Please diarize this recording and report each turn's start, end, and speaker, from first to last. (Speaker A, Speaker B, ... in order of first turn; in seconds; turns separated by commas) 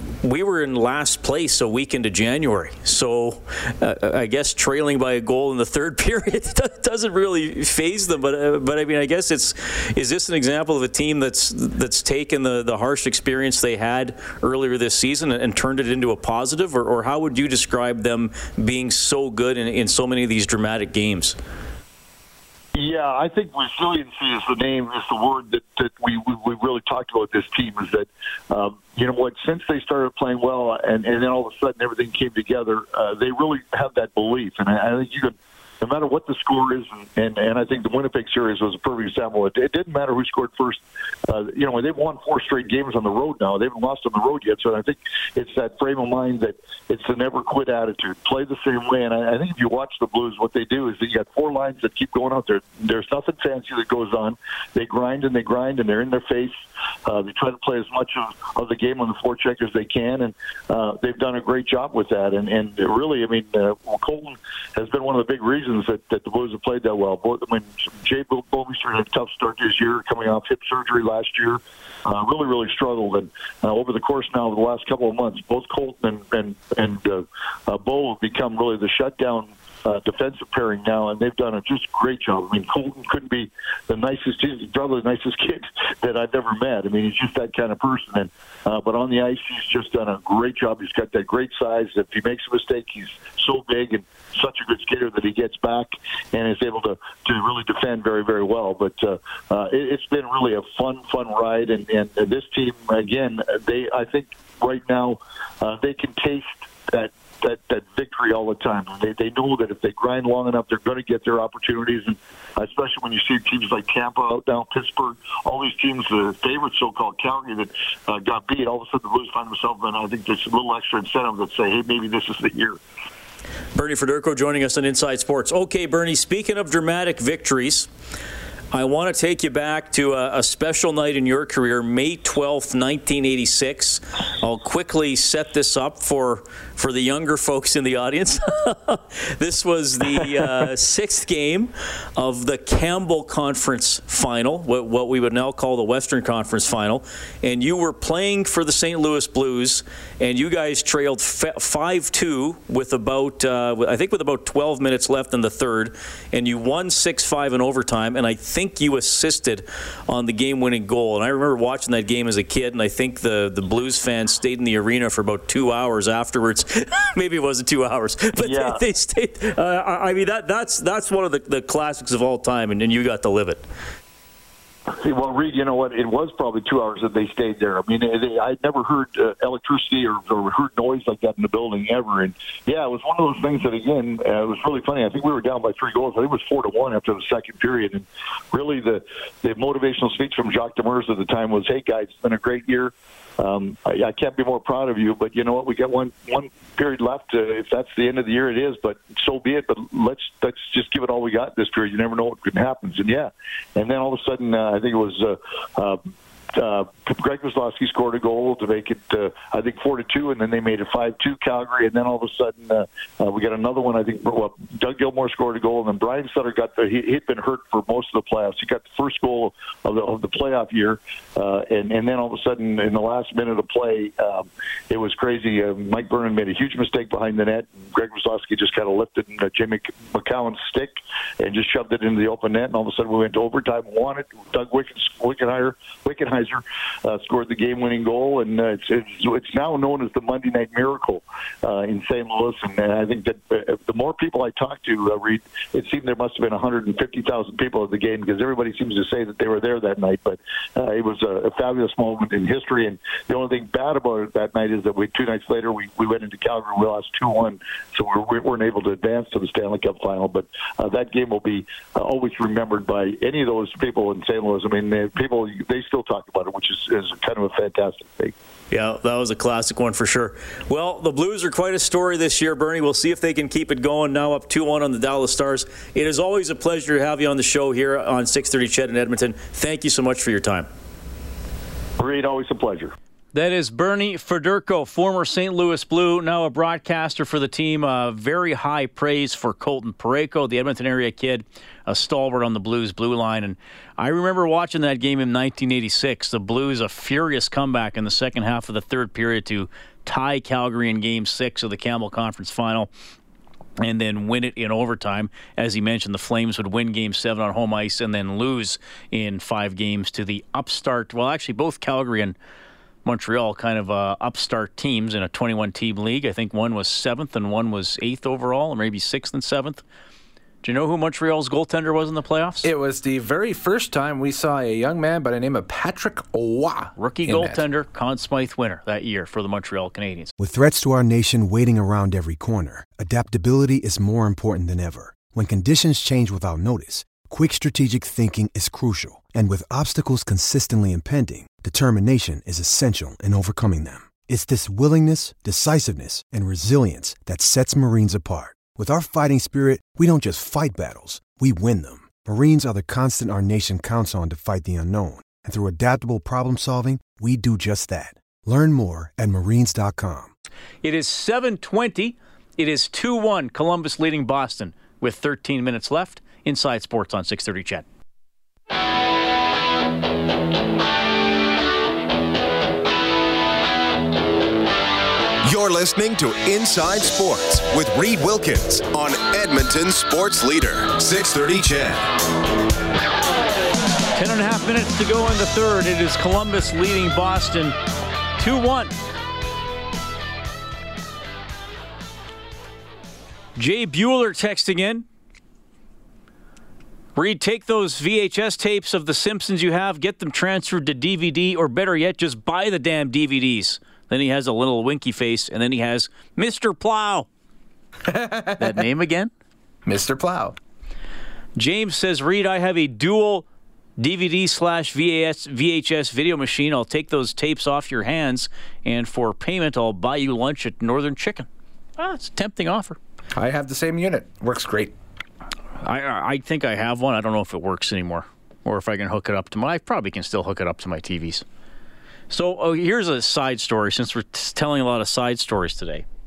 Speaker A: 0.2-21.4, Speaker B: 22.8-56.5, Speaker B: 57.1-122.8, Speaker A: 123.8-127.9, Speaker A: 128.7-173.6, Speaker B: 168.4-168.8, Speaker B: 174.9-206.0, Speaker B: 206.5-268.4, Speaker A: 268.7-280.7, Speaker B: 282.0-282.9, Speaker A: 283.3-302.9, Speaker A: 303.8-312.4, Speaker A: 313.0-319.8, Speaker A: 320.6-322.7, Speaker C: 322.6-327.6, Speaker A: 327.0-330.3, Speaker D: 330.4-360.3, Speaker A: 360.8-367.9, Speaker E: 375.5-382.1, Speaker A: 384.1-387.8, Speaker A: 388.4-388.9, Speaker A: 393.6-395.1, Speaker A: 397.2-407.3, Speaker C: 408.1-408.8, Speaker A: 408.6-409.3, Speaker C: 409.9-410.6, Speaker A: 411.6-413.5, Speaker A: 414.0-423.0, Speaker C: 423.4-424.9, Speaker A: 425.8-431.4, Speaker A: 432.3-436.1